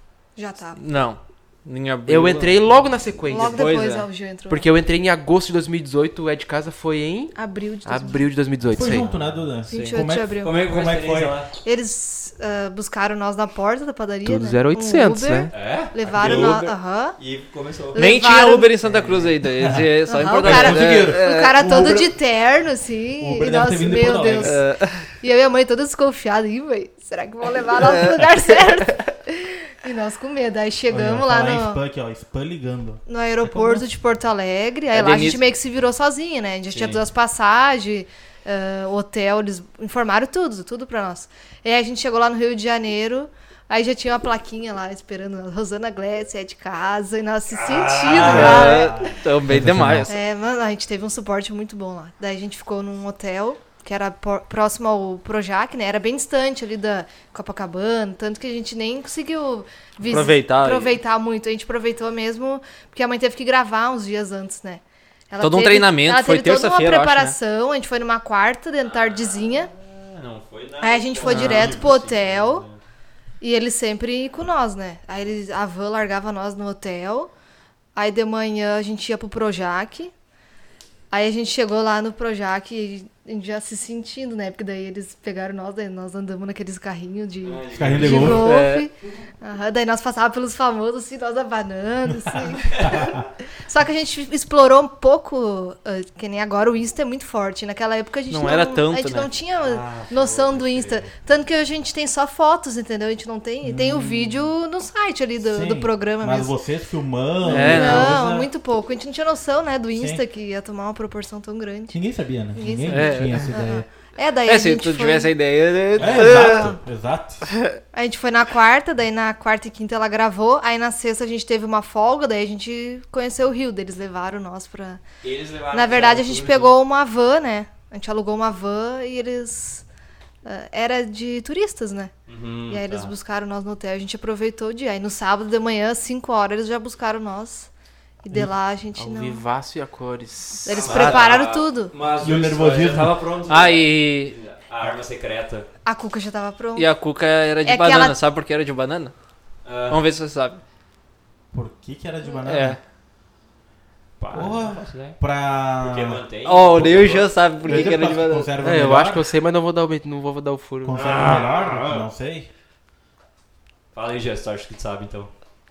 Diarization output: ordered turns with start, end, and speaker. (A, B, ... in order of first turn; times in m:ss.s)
0:00.4-0:00.8 A
0:00.8-0:02.6 B
0:02.1-0:03.8 C
0:03.3-0:04.7 A
0:03.4-0:04.1 B
0:04.5-0:09.1 C
0:07.4-0:08.3 A
0:08.7-0:11.4 D
0:08.8-0:09.5 E
0:09.7-0:10.5 A
0:09.7-0:10.0 B
0:10.4-0:11.5 E
0:11.6-0:17.2 A
0:14.2-0:15.5 C
0:15.5-0:18.0 E
0:16.1-0:16.6 D
0:17.9-0:18.8 A
0:18.0-0:22.0 B
0:18.9-0:22.1 D
0:20.1-0:24.6 A
0:23.2-0:24.6 D
0:24.4-0:25.1 B
0:25.2-0:31.8 A
0:27.7-0:29.1 B
0:30.9-0:33.8 D
0:33.1-0:49.2 A
0:34.9-0:35.4 B
0:36.7-0:37.0 E
0:47.5-0:48.9 E
0:48.2-0:50.1 D
0:48.2-0:50.1 B
0:50.1-1:09.7 A
1:00.0-1:01.0 B
1:05.4-1:07.4 B
1:08.8-1:12.8 E
1:10.8-1:12.7 A
1:11.2-1:11.8 B
1:13.4-1:17.3 A
1:18.0-1:20.1 A
1:21.1-1:46.6 A
1:27.4-1:28.5 E
1:27.7-1:28.5 D
1:28.1-1:28.9 B
1:32.3-1:33.2 D
1:38.3-1:39.3 B
1:39.6-1:41.1 E
1:43.6-1:44.4 D
1:45.4-1:48.5 D
1:47.4-1:48.2 B
1:47.5-1:52.0 A
1:50.0-1:50.2 D
1:51.9-1:53.9 D
1:52.5-1:55.3 A
1:52.9-1:53.6 B
1:54.5-1:56.8 B
1:56.0-1:57.5 D
1:56.0-1:56.3 E
1:56.3-1:56.7 A
1:57.5-1:57.8 B
1:57.9-2:05.0 A
2:05.2-2:06.7 E
2:05.7-2:09.8 A
2:10.4-2:12.1 A
2:12.3-2:13.1 E
2:12.7-2:17.7 A
2:18.2-2:19.4 A
2:19.0-2:21.1 C
2:20.6-2:21.9 A
2:20.7-2:25.7 E
2:20.9-2:21.2 B
2:22.2-2:23.2 D
2:23.5-2:24.4 B
2:25.8-2:26.9 A
2:26.8-2:29.1 B
2:27.6-2:28.2 A
2:29.6-2:30.0 E
2:29.9-2:30.6 B
2:31.5-2:32.8 D
2:32.4-2:32.8 B
2:34.2-2:35.2 E
2:34.3-2:36.2 D
2:35.8-2:37.9 E
2:36.4-2:38.6 B
2:37.6-2:39.3 D
2:38.6-2:41.2 C
2:40.8-2:42.5 D
2:40.9-2:42.1 E
2:43.9-2:45.3 E